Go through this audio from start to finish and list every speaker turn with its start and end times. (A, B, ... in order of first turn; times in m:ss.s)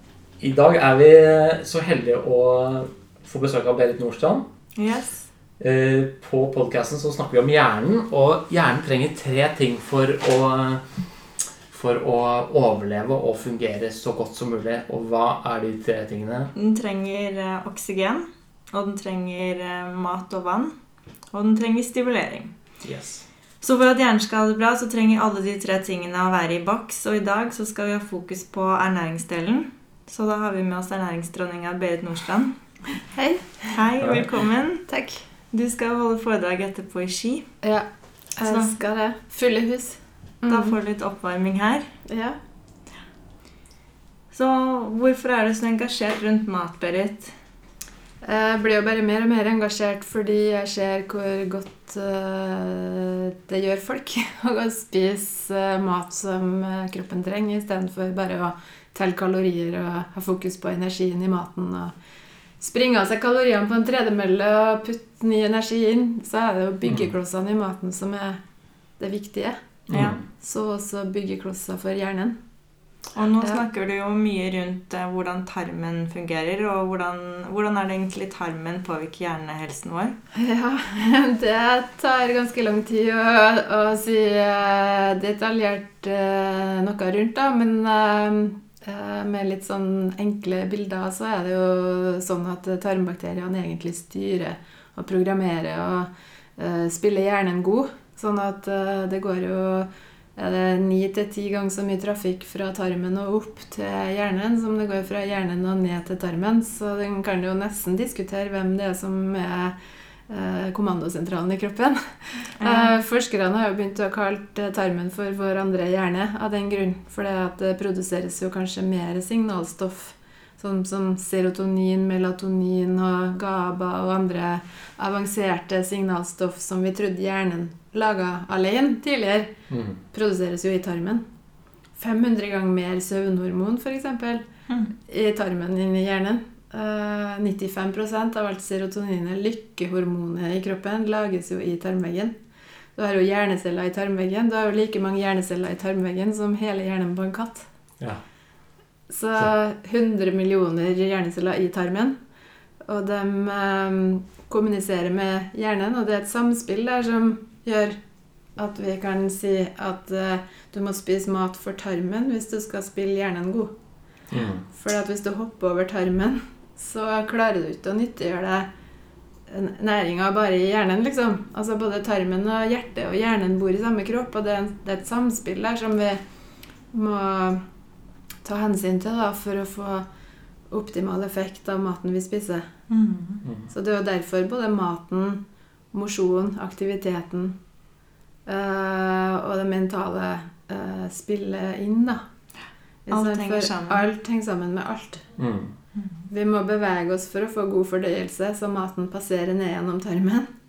0:00.4-0:04.5 A
0:04.8-0:05.3 B
0:05.6-0:10.8 A
0:11.7-0:16.5 A
0:16.5-0:20.7 B
0:21.3-0:22.5 B
0:22.8-0:23.2 A
0:23.6-0:32.5 B
0:33.0-0:33.8 C
0:33.7-0:34.8 B
0:34.0-0:34.3 A
0:34.9-0:35.2 C
0:35.5-0:37.4 B
0:37.6-0:40.8 C
0:38.4-0:38.7 B
0:40.5-0:41.9 B
0:42.1-0:42.4 C
0:44.3-0:47.3 B
0:48.2-1:01.9 C
1:02.6-1:08.4 C
1:06.9-1:07.1 A
1:09.0-1:09.6 C
1:09.9-1:10.2 A
1:09.9-1:10.2 B
1:10.4-1:12.4 C
1:13.1-1:20.1 B
1:20.3-1:49.7 C
1:50.3-2:09.5 C
1:52.6-1:53.0 B
2:09.7-2:10.0 A
2:10.1-2:11.2 C
2:12.0-2:14.4 C
2:15.0-2:22.3 C
2:23.0-2:27.7 C
2:29.1-2:32.2 C
2:32.8-2:38.0 C
2:38.6-2:43.7 C
2:44.3-2:44.6 A
2:44.7-2:48.7 C
2:49.5-2:56.2 C
2:56.9-2:57.6 C
2:58.4-3:00.0 C
3:00.7-3:02.7 C
3:02.9-3:03.4 B
3:03.7-3:05.4 C
3:05.9-3:07.6 C
3:08.4-3:12.2 C
3:13.1-3:15.2 C
3:13.1-3:14.0 B
3:15.4-3:15.7 A
3:15.9-3:16.2 B
3:16.3-3:20.5 C